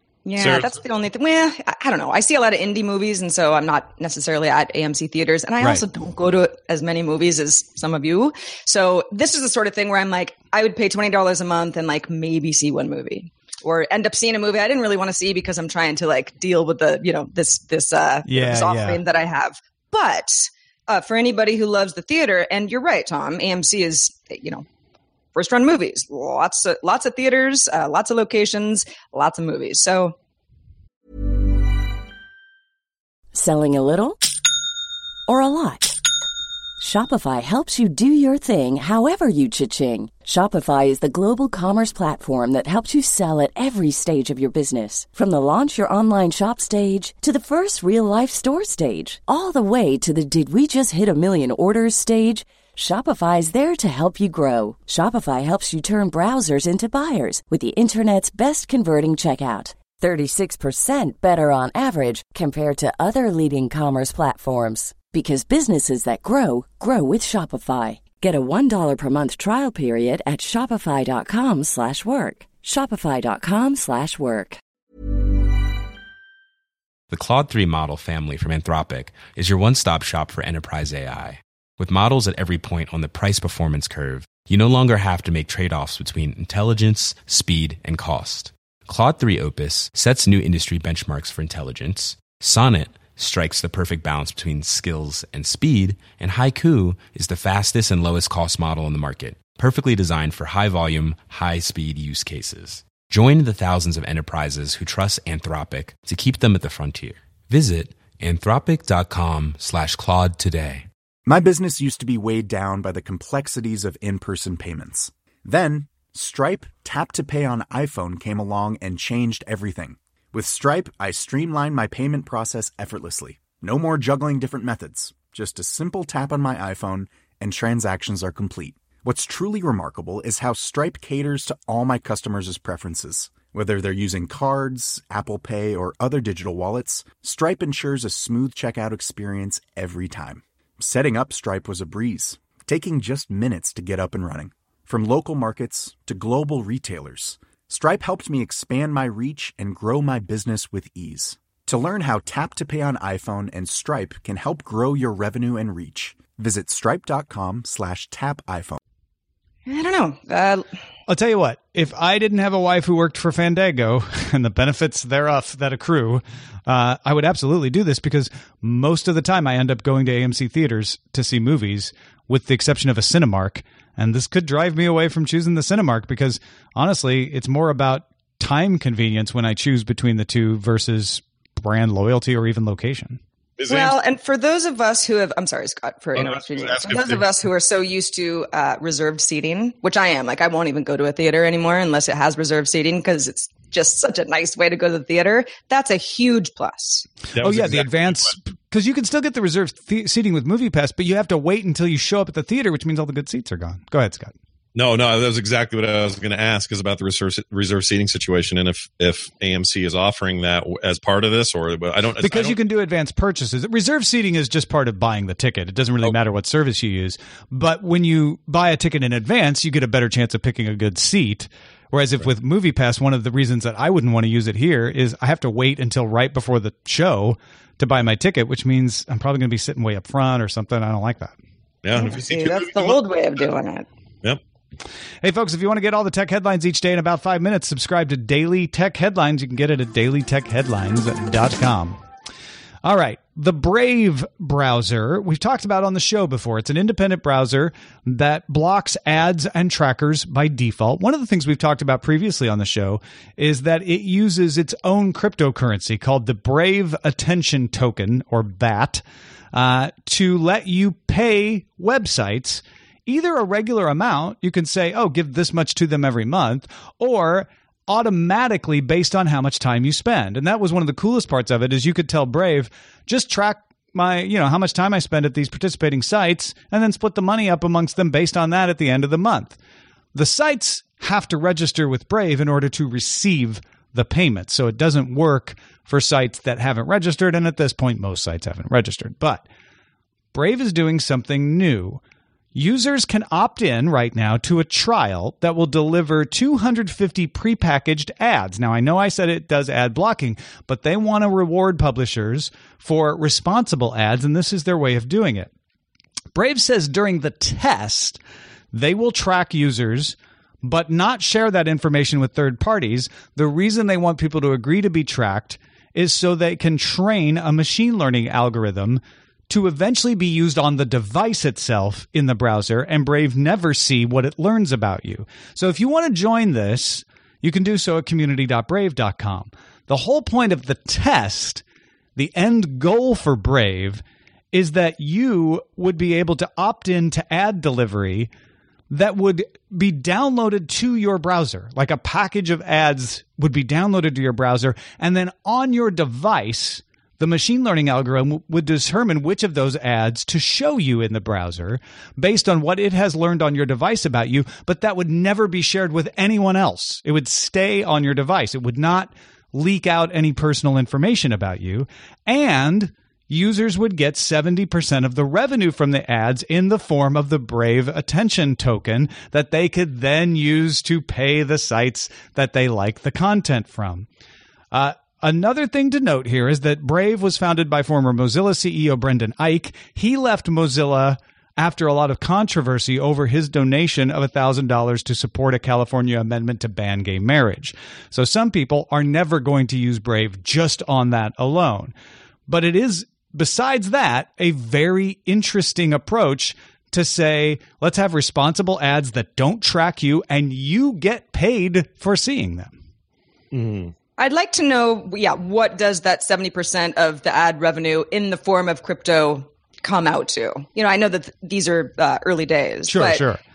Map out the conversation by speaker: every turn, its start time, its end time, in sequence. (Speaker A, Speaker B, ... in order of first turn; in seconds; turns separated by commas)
Speaker A: 0.3-24.6, Speaker B: 0.4-0.8, Speaker C: 18.3-19.0, Speaker A: 25.4-30.1, Speaker D: 33.3-34.2, Speaker D: 35.3-36.0, Speaker D: 36.8-74.6, Speaker E: 77.1-110.9, Speaker F: 111.3-158.8, Speaker A: 159.7-160.7, Speaker C: 161.1-183.2, Speaker B: 183.6-184.0, Speaker A: 183.7-197.1, Speaker B: 186.2-187.4, Speaker B: 197.3-198.3, Speaker C: 197.4-204.3, Speaker B: 204.8-212.6, Speaker C: 212.2-231.4, Speaker B: 231.8-233.5, Speaker A: 231.9-233.9, Speaker C: 235.2-242.0, Speaker C: 242.8-259.0, Speaker C: 259.5-279.6, Speaker C: 280.1-289.4, Speaker C: 290.3-292.0, Speaker C: 292.6-305.5, Speaker C: 306.4-308.2, Speaker C: 308.7-331.6, Speaker C: 332.2-338.3, Speaker C: 338.9-374.1, Speaker C: 374.7-391.9, Speaker C: 392.5-402.7, Speaker B: 403.5-403.9, Speaker A: 404.2-413.2, Speaker C: 412.9-413.4